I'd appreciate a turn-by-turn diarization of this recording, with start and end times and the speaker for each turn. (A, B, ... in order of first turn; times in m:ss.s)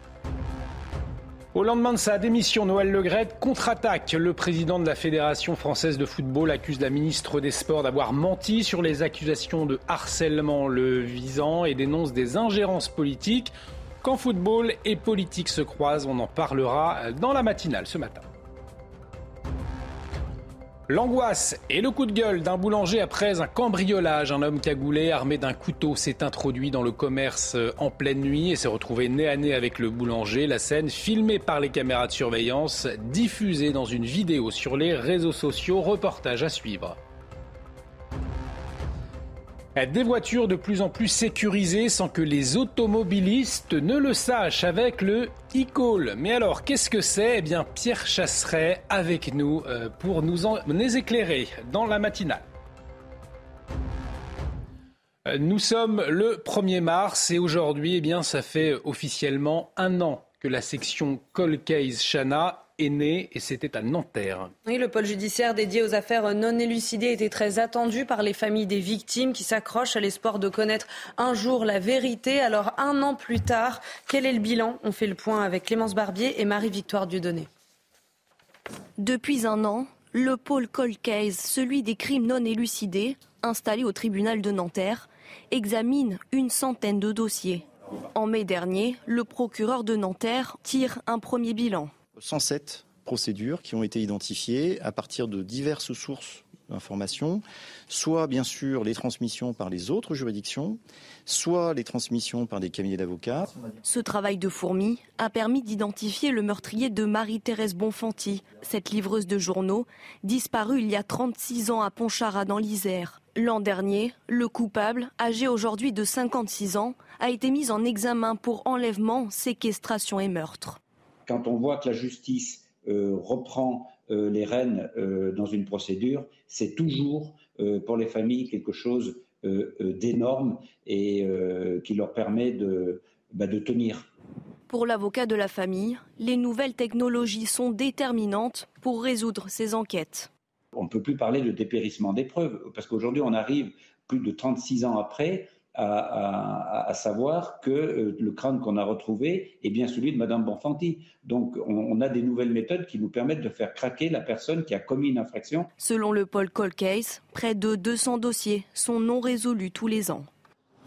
0:01.5-0:18.2 A
0:20.9-0:37.0 A
0:39.8-0:52.5 A
0:55.2-1:04.5 A
1:04.6-1:17.5 B
1:19.0-1:31.9 C
1:32.2-1:43.5 D
1:43.8-2:00.8 C
2:01.2-2:14.1 E
2:14.7-2:20.3 C
2:20.7-2:35.7 E
2:35.8-2:40.3 C